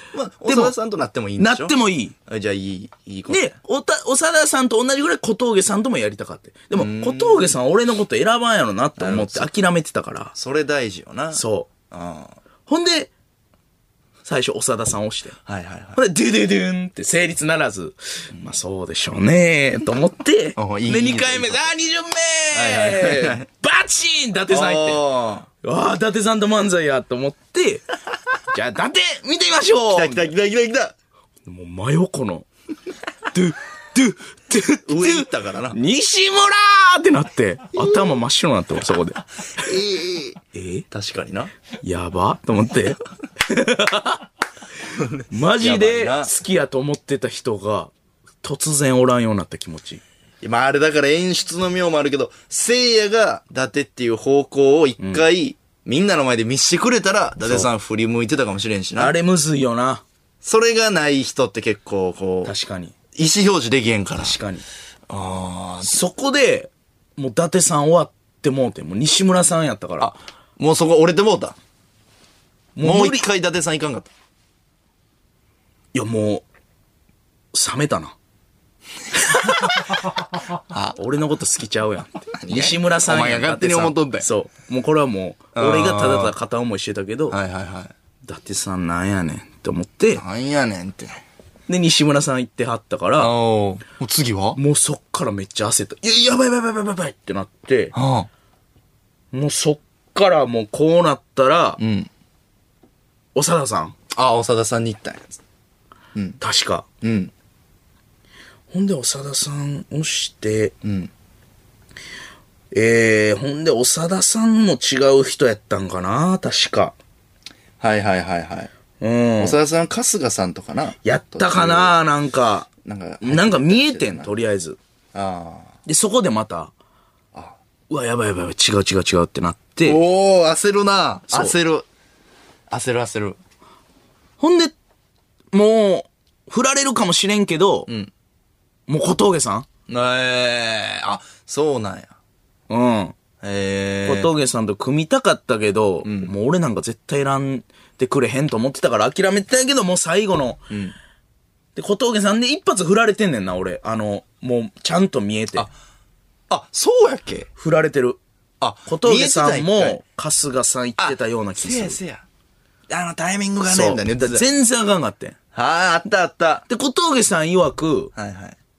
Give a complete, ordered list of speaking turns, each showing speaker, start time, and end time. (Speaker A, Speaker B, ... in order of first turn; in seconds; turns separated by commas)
Speaker A: 0.1-3.6, Speaker B: 0.5-0.7, Speaker B: 1.4-2.1, Speaker B: 3.3-10.3, Speaker A: 6.7-7.6, Speaker A: 9.0-9.5, Speaker A: 10.3-12.4, Speaker B: 11.3-11.7, Speaker B: 12.7-13.1, Speaker B: 14.2-15.4, Speaker A: 15.5-16.0, Speaker B: 15.9-25.1, Speaker A: 20.6-21.6, Speaker A: 22.5-23.5, Speaker A: 24.5-25.5, Speaker B: 25.6-27.8, Speaker B: 28.5-30.3, Speaker A: 29.9-30.9, Speaker B: 31.5-32.5, Speaker B: 33.3-39.2, Speaker A: 34.9-35.8, Speaker A: 39.6-41.5, Speaker B: 40.5-40.9, Speaker B: 41.8-44.3, Speaker A: 44.8-46.3, Speaker B: 45.3-47.9, Speaker B: 48.4-50.0, Speaker A: 50.4-59.2, Speaker B: 55.0-55.2, Speaker B: 57.4-57.7, Speaker B: 59.0-60.0, Speaker A: 60.4-62.5, Speaker B: 62.5-63.0, Speaker A: 63.1-64.4, Speaker B: 64.2-64.7, Speaker A: 65.1-66.0, Speaker B: 65.8-70.1, Speaker A: 70.0-71.6, Speaker B: 72.8-73.2, Speaker A: 72.8-74.1, Speaker B: 75.9-76.5, Speaker B: 77.5-78.2, Speaker B: 79.4-80.0, Speaker A: 80.7-81.0, Speaker B: 81.0-87.4, Speaker A: 82.3-84.3, Speaker A: 85.5-86.3, Speaker A: 87.3-87.9, Speaker B: 88.3-90.2, Speaker A: 90.2-91.2, Speaker B: 91.7-93.3, Speaker A: 93.2-94.6, Speaker B: 94.6-97.9, Speaker A: 97.9-98.3, Speaker B: 99.3-101.8, Speaker A: 101.8-102.1, Speaker B: 103.3-104.0, Speaker A: 104.1-105.4, Speaker A: 106.2-106.4, Speaker B: 106.4-106.9, Speaker A: 107.0-107.3, Speaker B: 108.7-110.8, Speaker A: 110.8-111.1, Speaker B: 112.7-117.0, Speaker A: 117.8-118.7, Speaker B: 119.0-119.6, Speaker A: 119.4-122.0, Speaker B: 121.0-122.7, Speaker A: 122.8-124.3, Speaker B: 123.2-124.8, Speaker A: 125.1-125.8, Speaker B: 125.9-126.7, Speaker B: 127.9-130.0, Speaker A: 129.8-131.9, Speaker A: 132.7-133.4, Speaker B: 134.4-134.8, Speaker B: 135.5-137.9, Speaker A: 137.9-138.1, Speaker B: 138.9-139.7, Speaker A: 139.9-142.1, Speaker B: 142.7-143.2, Speaker A: 143.4-144.3, Speaker B: 144.1-150.7, Speaker A: 146.0-146.3, Speaker A: 150.7-150.9, Speaker B: 151.8-155.7, Speaker A: 156.5-157.5, Speaker B: 157.6-158.2, Speaker A: 158.6-160.0, Speaker B: 158.9-162.0, Speaker A: 161.0-162.2, Speaker A: 162.9-164.5, Speaker B: 163.7-165.4, Speaker A: 165.5-166.7, Speaker B: 166.7-168.1, Speaker A: 168.2-168.6